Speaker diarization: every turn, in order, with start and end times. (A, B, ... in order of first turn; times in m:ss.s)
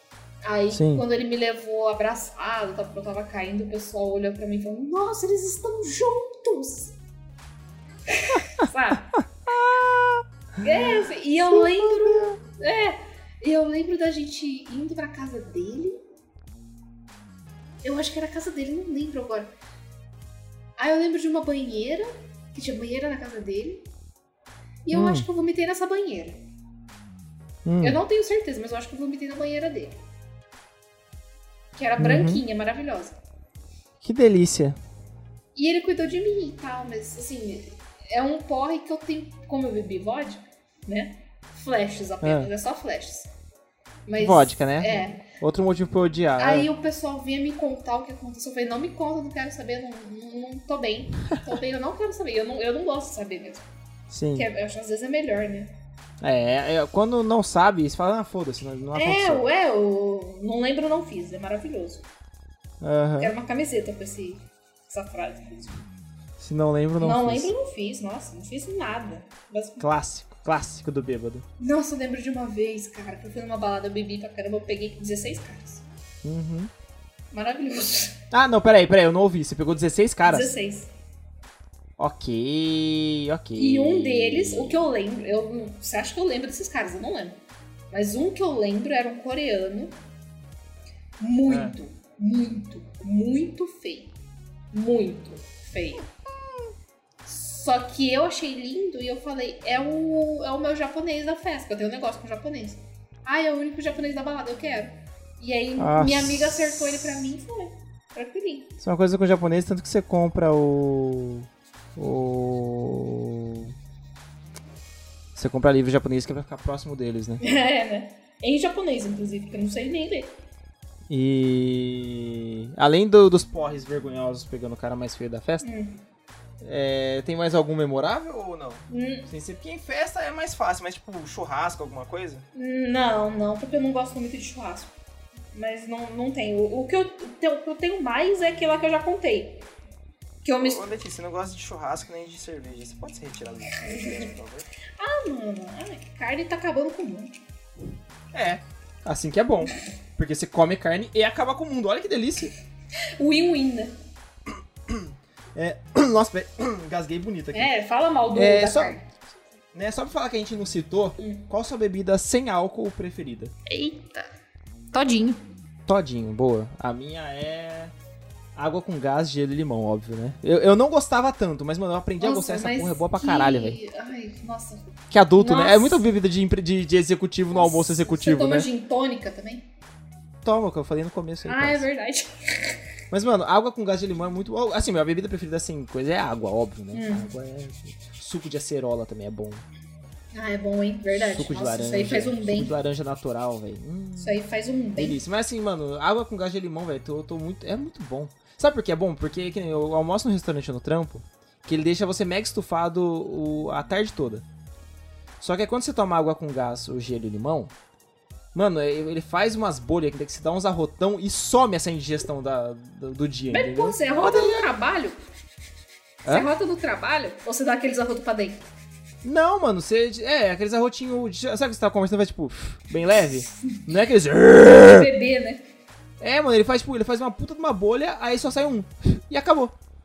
0:00.4-0:06.9 A
0:00.7-0:01.0 B
0:08.1-0:09.2 A
0:09.5-0:12.4 B
0:10.6-0:16.0 A
0:17.8-0:19.5 A
0:20.8-0:23.9 A
0:24.8-0:26.4 A
0:24.9-0:25.2 B
0:27.6-0:28.0 B
0:27.8-0:30.0 A
0:31.8-0:33.2 A
0:32.0-0:32.4 B
0:34.0-0:34.8 B
0:35.5-0:43.3 A
0:42.2-0:42.5 B
0:44.1-0:45.2 A
0:44.2-0:46.7 B
0:46.4-0:53.6 A
0:54.1-0:54.5 B
0:54.3-0:55.7 A
0:56.2-0:59.4 B
0:58.9-1:02.0 A
1:02.8-1:03.3 B
1:03.2-1:05.8 A
1:06.4-1:07.5 B
1:07.0-1:09.8 A
1:09.8-1:11.4 B
1:11.6-1:15.8 A
1:16.2-1:16.7 B
1:17.3-1:18.2 A
1:18.3-1:20.5 B
1:20.2-1:20.9 A
1:22.0-1:24.8 B
1:23.6-1:27.4 A
1:27.9-1:29.9 A
1:31.2-1:34.1 A
1:31.4-1:31.7 B
1:34.7-1:36.0 A
1:37.2-1:48.7 A
1:45.8-1:46.6 B
1:48.8-1:53.7 B
1:55.3-1:57.4 B
1:57.4-2:00.3 A
2:01.1-2:05.7 B
2:05.6-2:06.0 A
2:06.6-2:12.4 B
2:08.9-2:09.3 A
2:12.5-2:14.9 A
2:15.5-2:19.6 A
2:20.4-2:20.8 A
2:20.6-2:24.7 B
2:23.7-2:24.3 A
2:25.0-2:27.4 A
2:28.3-2:32.5 B
2:33.2-2:33.9 A
2:34.9-2:37.7 B
2:37.5-2:39.0 A
2:38.3-2:39.0 B
2:39.7-2:43.5 B
2:41.2-2:41.5 A
2:43.6-2:44.3 A
2:44.9-2:45.4 A
2:45.9-2:47.9 B
2:48.6-2:53.8 B
2:52.2-2:56.0 A
2:55.1-2:58.7 B
2:57.5-2:59.7 A
3:00.4-3:01.8 B
3:01.4-3:02.8 A
3:03.1-3:09.6 B
3:06.9-3:07.3 A
3:10.3-3:12.7 A
3:11.1-3:14.4 B
3:14.2-3:15.2 A
3:15.0-3:24.4 B
3:25.4-3:27.7 B
3:28.5-3:34.7 B
3:33.5-3:35.2 A
3:36.2-3:36.5 B
3:36.2-3:38.6 A
3:39.2-3:45.1 B
3:44.8-3:45.6 A
3:46.2-3:49.7 B